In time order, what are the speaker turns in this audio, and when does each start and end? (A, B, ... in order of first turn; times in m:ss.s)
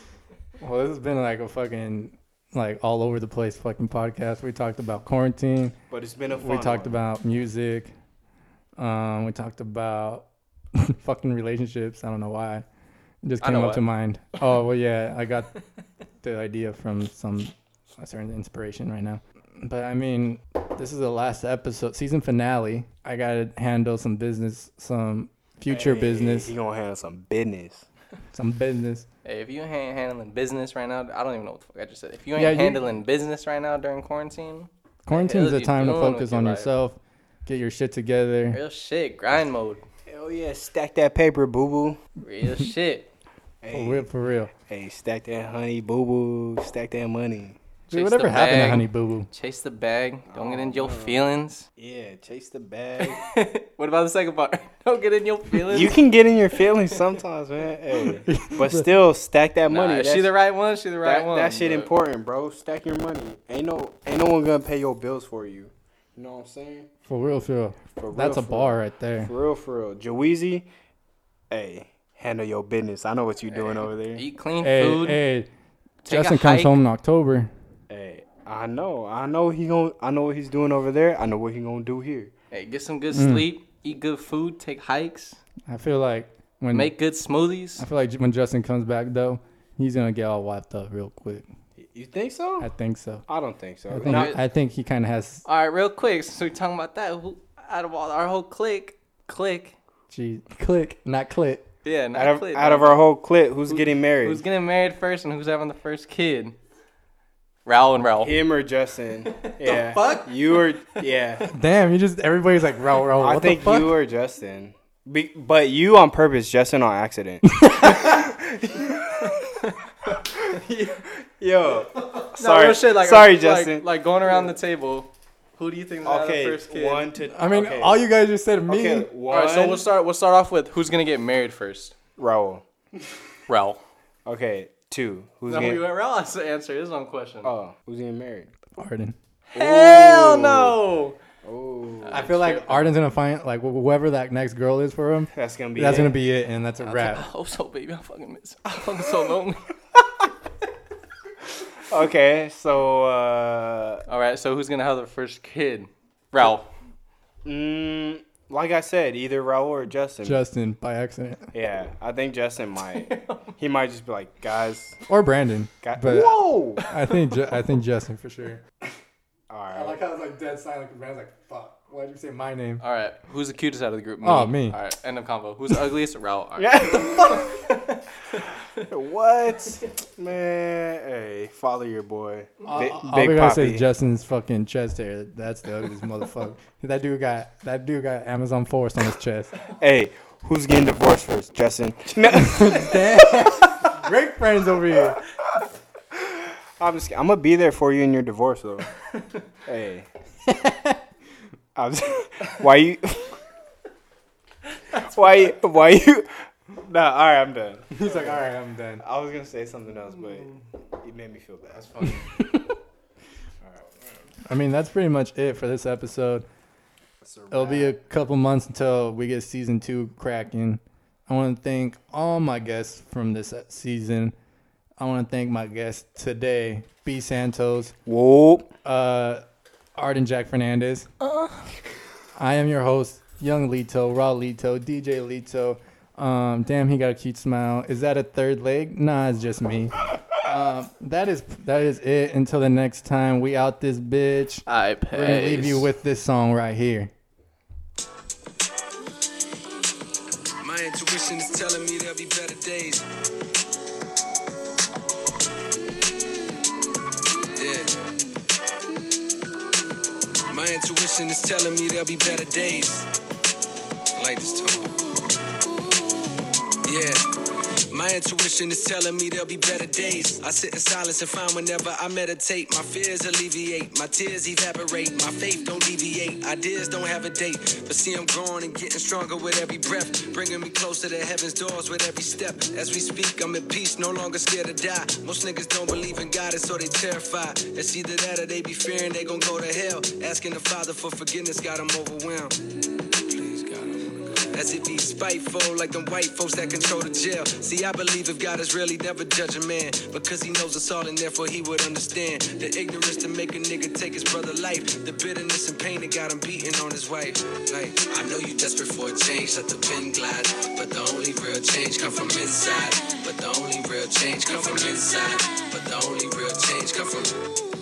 0:00.6-0:05.8 A
0:05.9-0:06.9 B
0:06.3-0:07.9 A
0:08.8-0:12.6 A
0:13.2-0:15.5 A
0:13.4-0:13.8 C
0:16.2-0:26.5 A
0:25.7-0:27.8 B
0:28.3-0:29.1 A
0:29.2-0:36.7 C
0:32.3-0:32.8 A
0:35.0-0:38.6 A
0:38.5-0:39.8 C
0:40.1-0:42.0 B
0:42.2-0:43.1 C
0:43.6-0:47.6 B
0:43.7-0:44.5 A
0:47.9-0:51.7 C
0:47.9-0:49.3 A
0:50.3-0:51.2 B
0:51.8-0:53.2 B
0:53.0-0:56.0 C
0:55.6-1:00.4 B
0:58.3-0:58.8 A
0:59.7-1:01.9 C
1:01.0-1:06.9 B
1:07.1-1:09.3 A
1:08.0-1:10.7 B
1:11.5-1:14.2 B
1:13.5-1:15.2 C
1:14.6-1:15.5 A
1:16.0-1:16.8 C
1:16.1-1:17.5 A
1:17.9-1:22.3 B
1:22.5-1:25.4 C
1:23.1-1:23.5 A
1:25.7-1:26.9 A
1:26.7-1:27.8 C
1:27.8-1:31.5 A
1:31.8-1:32.7 B
1:32.6-1:33.2 A
1:33.3-1:34.4 B
1:33.9-1:35.4 A
1:34.0-1:34.4 C
1:35.4-1:39.8 C
1:40.1-1:41.6 A
1:41.8-1:43.0 C
1:42.1-1:44.4 B
1:43.7-1:46.6 C
1:47.6-1:48.4 C
1:48.2-1:51.5 B
1:49.5-1:50.3 C
1:51.5-1:54.0 A
1:53.2-2:04.4 B
1:57.6-1:58.2 A
2:02.3-2:07.1 C
2:06.0-2:08.0 B
2:07.3-2:09.1 A
2:08.7-2:09.9 B
2:09.3-2:11.9 C
2:12.2-2:12.6 B
2:13.5-2:13.8 C
2:14.2-2:15.9 B
2:15.5-2:17.5 C
2:17.4-2:18.5 B
2:18.8-2:19.2 A
2:19.5-2:21.2 C
2:19.5-2:20.8 B
2:21.4-2:22.3 B
2:22.1-2:22.9 C
2:22.1-2:27.2 A
2:25.3-2:26.2 B
2:26.8-2:29.7 C
2:31.9-2:34.0 B
2:34.1-2:36.7 C
2:37.4-2:40.4 B
2:40.2-2:41.5 A
2:41.5-2:45.0 B
2:43.0-2:43.4 C
2:45.1-2:48.6 A
2:45.8-2:46.8 B
2:49.5-2:50.0 B
2:49.7-2:52.8 A
2:52.8-2:57.9 C
2:54.2-2:54.8 A
2:56.6-2:57.6 B
2:58.8-3:03.8 B
3:02.7-3:09.5 A
3:09.8-3:13.2 B
3:12.3-3:15.2 A
3:16.8-3:18.9 B
3:19.6-3:20.1 B
3:20.5-3:21.0 A
3:21.8-3:23.3 B
3:24.9-3:28.4 B
3:27.9-3:29.0 A
3:29.0-3:32.2 B
3:32.2-3:32.7 A
3:34.4-3:36.4 A
3:37.2-3:38.0 B
3:37.5-3:44.3 A
3:45.0-3:47.9 A
3:48.0-3:48.7 B
3:48.8-3:49.4 A
3:50.0-3:51.1 A
3:52.4-4:07.1 A
4:04.7-4:05.9 C
4:10.6-4:13.0 D
4:17.6-4:18.0 D
4:20.5-4:23.1 D
4:24.2-4:25.0 D
4:26.8-4:27.2 D
4:27.9-4:52.6 D
4:53.2-5:17.4 D